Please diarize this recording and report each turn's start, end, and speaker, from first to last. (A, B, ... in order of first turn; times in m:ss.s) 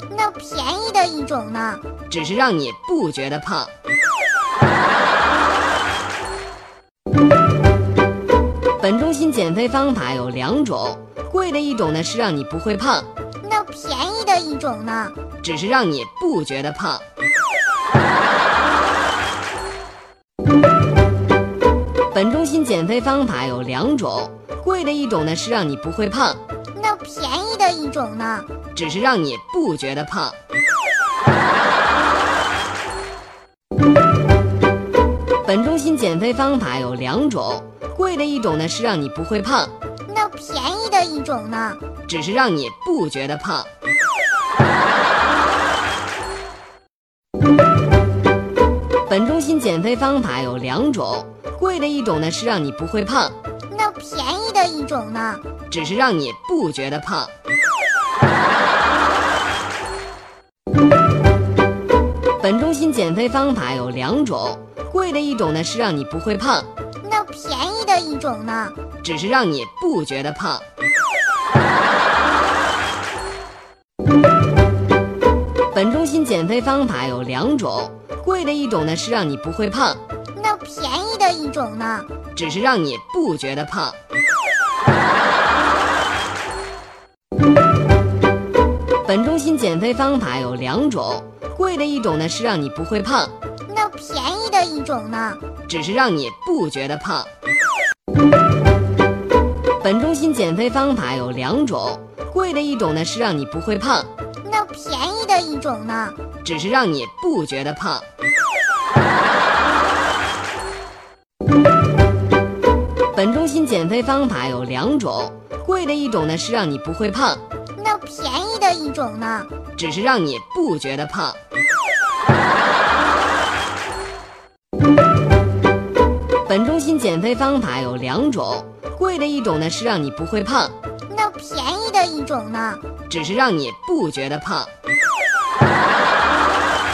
0:00.1-0:01.9 A
0:02.1-0:03.8 B
0:08.8-0:13.1 B
0:13.4-0:15.2 A
0:15.4-0:17.1 B
0:22.1-0:26.4 B
0:26.7-0:28.5 A
0:28.7-0:30.4 B
0:35.4-0:39.8 B
0:40.0-0:41.9 A
0:42.0-0:43.7 B
0:49.0-0:53.4 B
0:53.7-0:55.5 A
0:55.7-0:57.4 B
1:02.4-1:06.7 B
1:07.0-1:08.8 A
1:09.0-1:10.7 B
1:15.7-1:20.1 B
1:20.3-1:22.1 A
1:22.3-1:24.0 B
1:29.0-1:33.4 B
1:33.6-1:35.5 A
1:35.6-1:37.3 B
1:39.8-1:44.1 B
1:44.4-1:46.2 A
1:46.4-1:48.1 B
1:53.1-1:57.6 B
1:57.7-1:59.5 A
1:59.7-2:01.4 B
2:06.4-2:10.8 B
2:11.1-2:12.9 A
2:13.0-2:14.8 B